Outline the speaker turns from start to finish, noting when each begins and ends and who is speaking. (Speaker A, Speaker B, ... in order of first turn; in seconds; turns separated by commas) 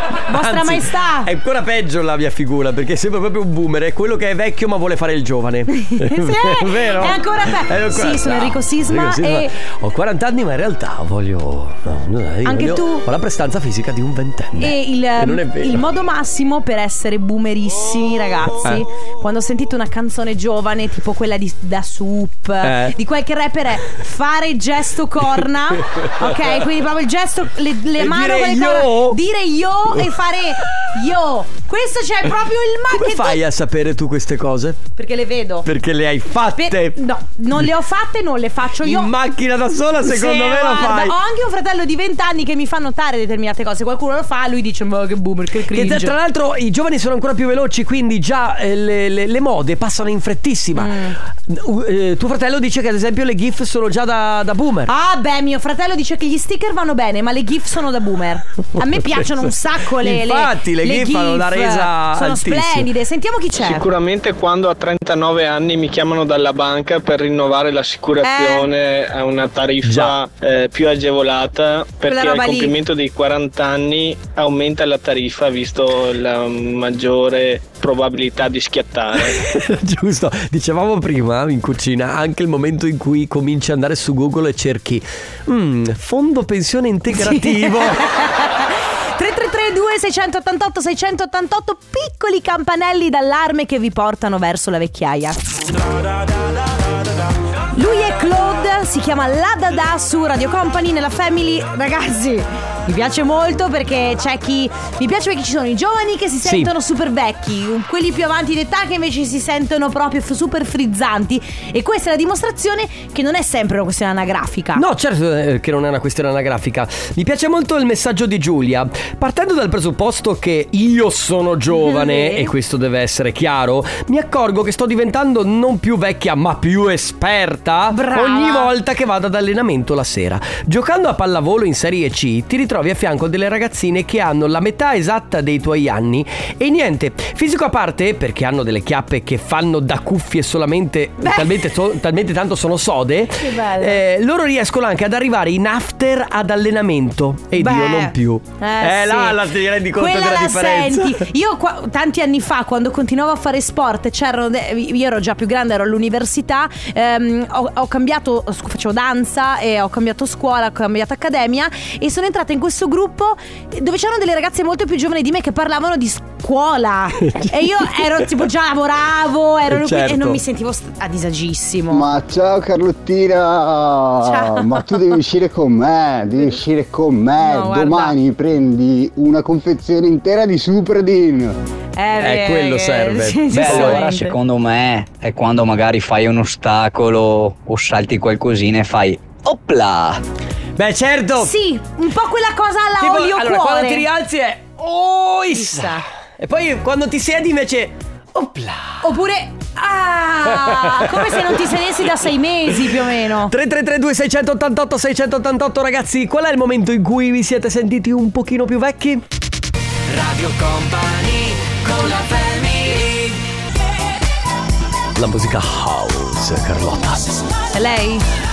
Speaker A: 0.3-1.3, Speaker B: 0.3-15.9, Speaker A: 5.7-9.5, Speaker A: 12.4-13.0, Speaker A: 14.6-33.4, Speaker B: 18.6-18.9, Speaker B: 22.6-22.9, Speaker B: 25.9-26.6, Speaker B: 28.0-29.2, Speaker B: 32.9-34.8, Speaker A: 35.0-35.7, Speaker B: 35.6-37.0, Speaker A: 36.5-39.1, Speaker B: 38.8-41.1, Speaker A: 40.0-46.1, Speaker B: 45.6-54.9, Speaker A: 50.7-51.2, Speaker A: 54.9-63.9, Speaker B: 58.9-62.9, Speaker C: 63.6-79.4, Speaker A: 68.2-68.7, Speaker B: 69.8-70.1, Speaker A: 72.0-72.7, Speaker B: 79.3-88.0, Speaker A: 87.1-95.4, Speaker A: 97.7-114.8, Speaker B: 106.4-106.7, Speaker B: 114.7-151.2, Speaker A: 121.7-122.5, Speaker A: 127.9-128.7, Speaker A: 141.2-141.5, Speaker A: 143.4-144.0, Speaker A: 147.6-149.4, Speaker A: 149.9-172.1, Speaker B: 167.2-168.2, Speaker B: 169.7-170.4, Speaker D: 171.9-181.6, Speaker A: 174.2-175.0, Speaker A: 177.4-178.2, Speaker A: 181.9-184.4, Speaker B: 182.2-184.1, Speaker E: 183.5-190.2, Speaker B: 190.8-191.5, Speaker A: 191.4-194.1, Speaker B: 193.0-199.1, Speaker A: 195.5-196.0, Speaker A: 199.0-203.5, Speaker B: 200.4-202.0, Speaker B: 202.7-209.2, Speaker F: 210.1-213.4, Speaker B: 215.2-217.3, Speaker A: 217.7-218.2